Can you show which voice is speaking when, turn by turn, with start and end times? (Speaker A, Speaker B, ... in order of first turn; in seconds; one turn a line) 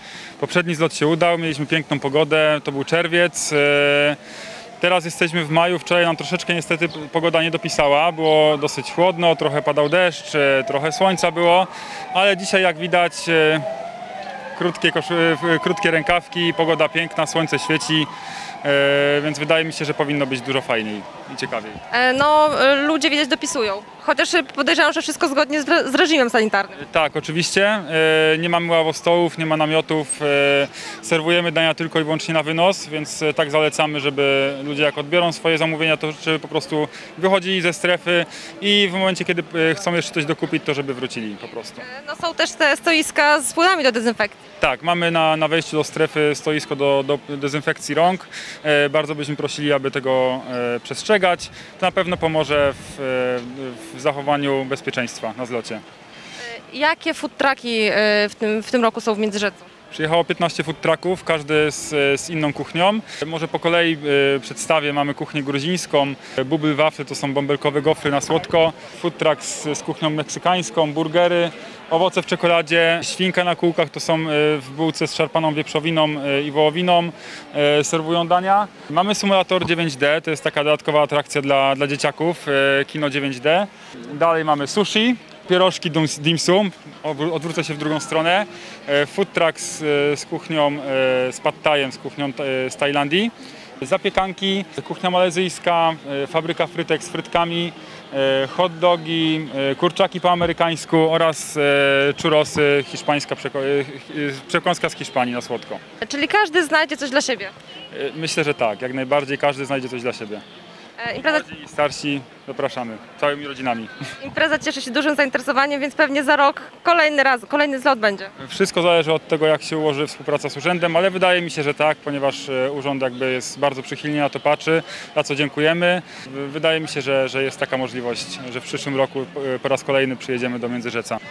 Speaker A: 0.4-4.2
Speaker A: 4.8-13.7
Speaker A: 14.6-18.1
Speaker A: 18.6-21.8
Speaker B: 21.9-26.8
Speaker A: 26.7-41.8
Speaker B: 41.8-44.4
Speaker A: 44.6-55.8
Speaker B: 56.4-59.7
Speaker A: 59.9-105.8
Speaker B: 106.0-107.5
Speaker A: 107.9-110.4
Speaker B: 111.0-111.5
Speaker A: 111.2-113.9
Speaker B: 114.2-118.3
Speaker A: 118.4-131.2